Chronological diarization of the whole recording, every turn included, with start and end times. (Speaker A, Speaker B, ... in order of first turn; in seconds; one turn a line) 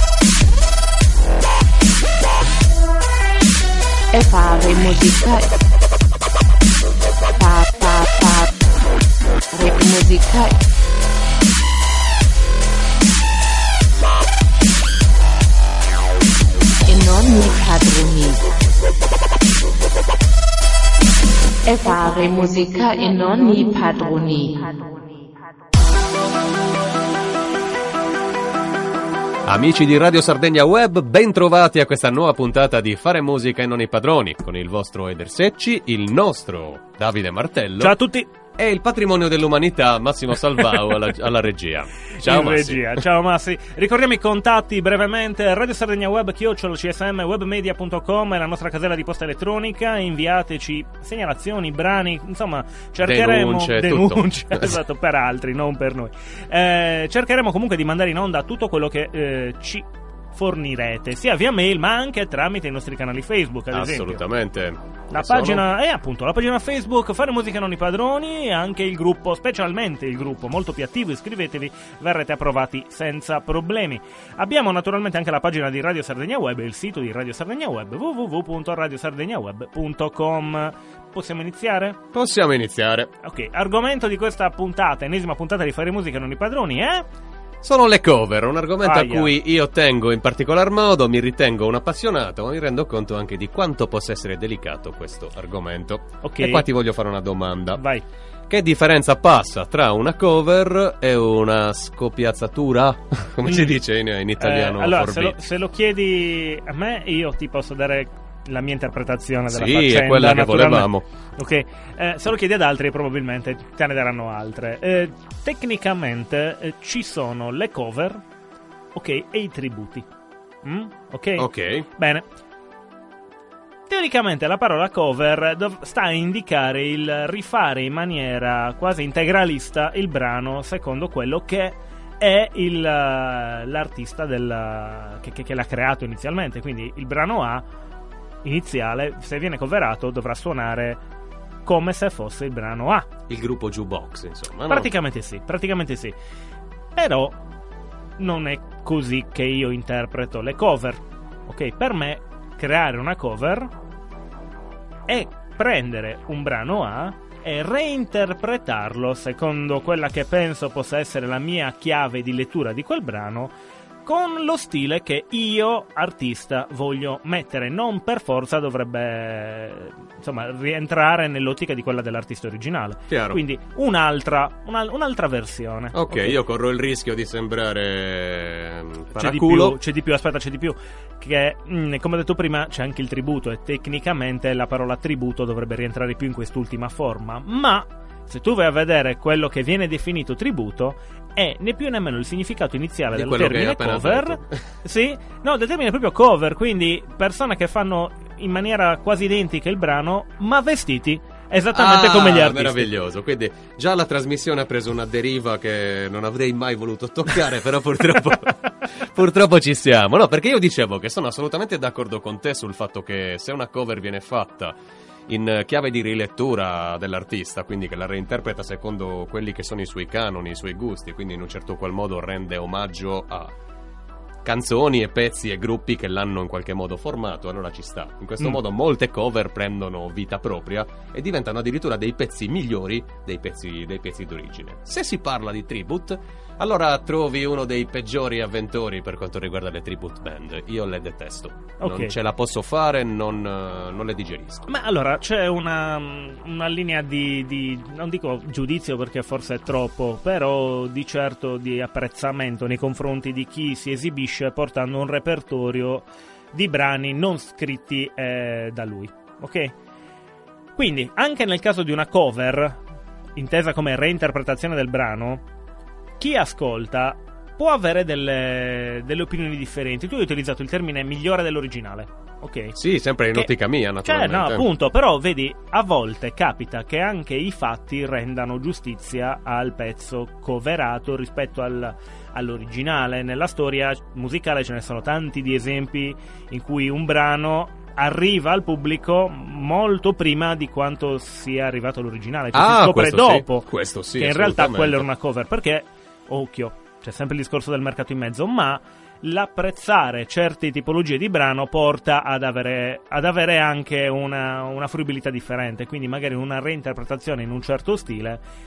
Speaker A: 4.1-5.5
Speaker A: 7.4-8.5
Speaker A: 9.5-10.6
Speaker A: 16.9-18.4
Speaker A: 21.7-24.9
Speaker B: 29.4-38.0
Speaker C: 37.8-38.3
Speaker B: 38.6-43.0
Speaker C: 42.1-64.2
Speaker B: 53.0-54.8
Speaker B: 63.7-65.7
Speaker C: 65.1-82.0
Speaker B: 82.1-83.1
Speaker C: 83.2-87.0
Speaker B: 87.6-97.8
Speaker C: 88.8-89.3
Speaker C: 96.2-96.7
Speaker C: 97.8-98.0
Speaker B: 98.5-105.4
Speaker C: 103.5-103.8
Speaker C: 104.4-118.2
Speaker B: 109.5-111.0
Speaker C: 119.0-120.1
Speaker C: 120.6-122.3
Speaker B: 121.4-121.9
Speaker C: 123.9-137.6
Speaker C: 138.4-141.0
Speaker C: 141.7-143.1
Speaker B: 143.3-144.9
Speaker C: 144.7-146.2
Speaker C: 146.9-147.4
Speaker C: 148.2-153.7
Speaker C: 155.1-163.5
Speaker C: 164.1-176.4
Speaker B: 173.1-173.4
Speaker B: 175.9-179.8
Speaker C: 179.2-202.9
Speaker B: 193.1-194.7
Speaker B: 201.7-214.8
Speaker B: 215.3-223.5
Speaker B: 224.4-244.7
Speaker C: 241.8-242.2
Speaker C: 244.7-259.8
Speaker C: 260.8-262.8
Speaker C: 263.4-265.4
Speaker C: 266.2-272.8
Speaker B: 272.8-274.7
Speaker C: 274.0-308.4
Speaker B: 292.5-295.1